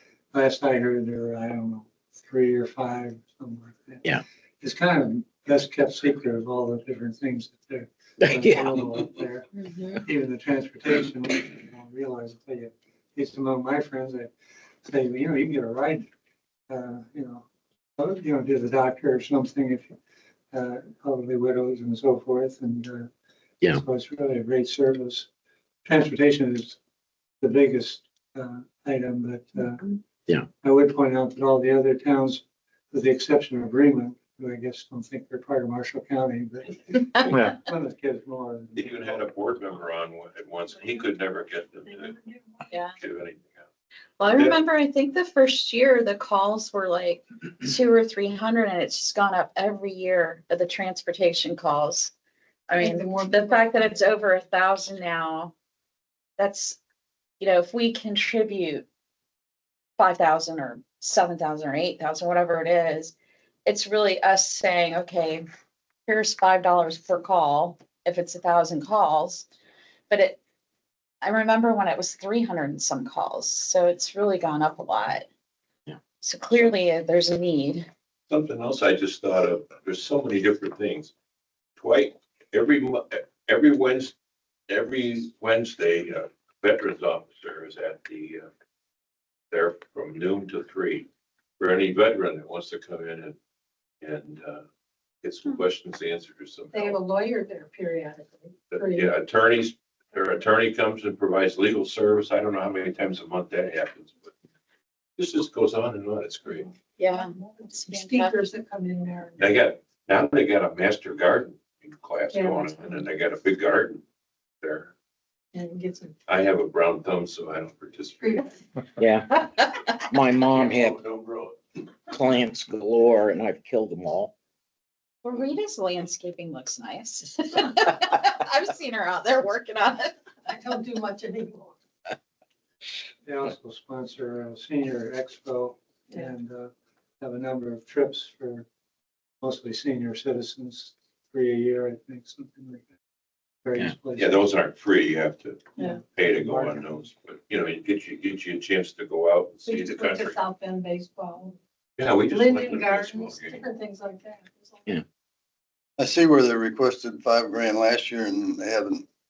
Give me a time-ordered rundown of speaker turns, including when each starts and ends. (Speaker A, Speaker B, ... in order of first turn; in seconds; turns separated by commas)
Speaker A: 0.3-4.1, Speaker A: 4.6-14.3, Speaker B: 8.2-9.2, Speaker C: 9.6-9.9, Speaker A: 14.8-16.1, Speaker A: 16.7-17.4, Speaker A: 18.0-20.0, Speaker A: 20.5-23.1, Speaker A: 23.7-25.3, Speaker A: 25.9-26.8, Speaker A: 27.4-30.0, Speaker A: 30.6-39.2, Speaker D: 38.8-42.3, Speaker C: 42.7-43.0, Speaker D: 42.9-43.7, Speaker C: 44.2-52.1, Speaker D: 44.3-44.6, Speaker C: 52.7-55.5, Speaker E: 52.8-53.9, Speaker C: 56.4-56.8, Speaker C: 57.4-58.9, Speaker C: 60.0-63.1, Speaker C: 63.6-65.4, Speaker C: 66.1-69.5, Speaker C: 70.1-70.4, Speaker C: 71.2-75.3, Speaker C: 76.2-77.9, Speaker D: 78.3-81.1, Speaker D: 81.8-84.2, Speaker D: 84.7-88.5, Speaker D: 89.5-91.1, Speaker D: 91.6-93.4, Speaker D: 94.0-94.6, Speaker D: 95.2-97.0, Speaker E: 96.7-99.1, Speaker D: 98.7-104.3, Speaker D: 105.2-106.7, Speaker C: 107.0-108.3, Speaker E: 107.1-109.5, Speaker D: 109.4-114.0, Speaker E: 112.3-112.9, Speaker D: 114.6-114.9, Speaker E: 115.5-116.1, Speaker D: 116.3-118.4, Speaker E: 118.2-118.6, Speaker B: 119.0-121.0, Speaker D: 120.5-121.6, Speaker B: 122.1-124.3, Speaker C: 125.2-130.1, Speaker E: 130.5-131.8, Speaker A: 133.2-138.7, Speaker A: 139.4-142.8, Speaker A: 143.6-144.4, Speaker D: 144.2-150.4, Speaker A: 145.8-147.1, Speaker E: 149.7-151.6, Speaker D: 152.0-153.7, Speaker E: 152.3-154.9, Speaker F: 156.0-159.1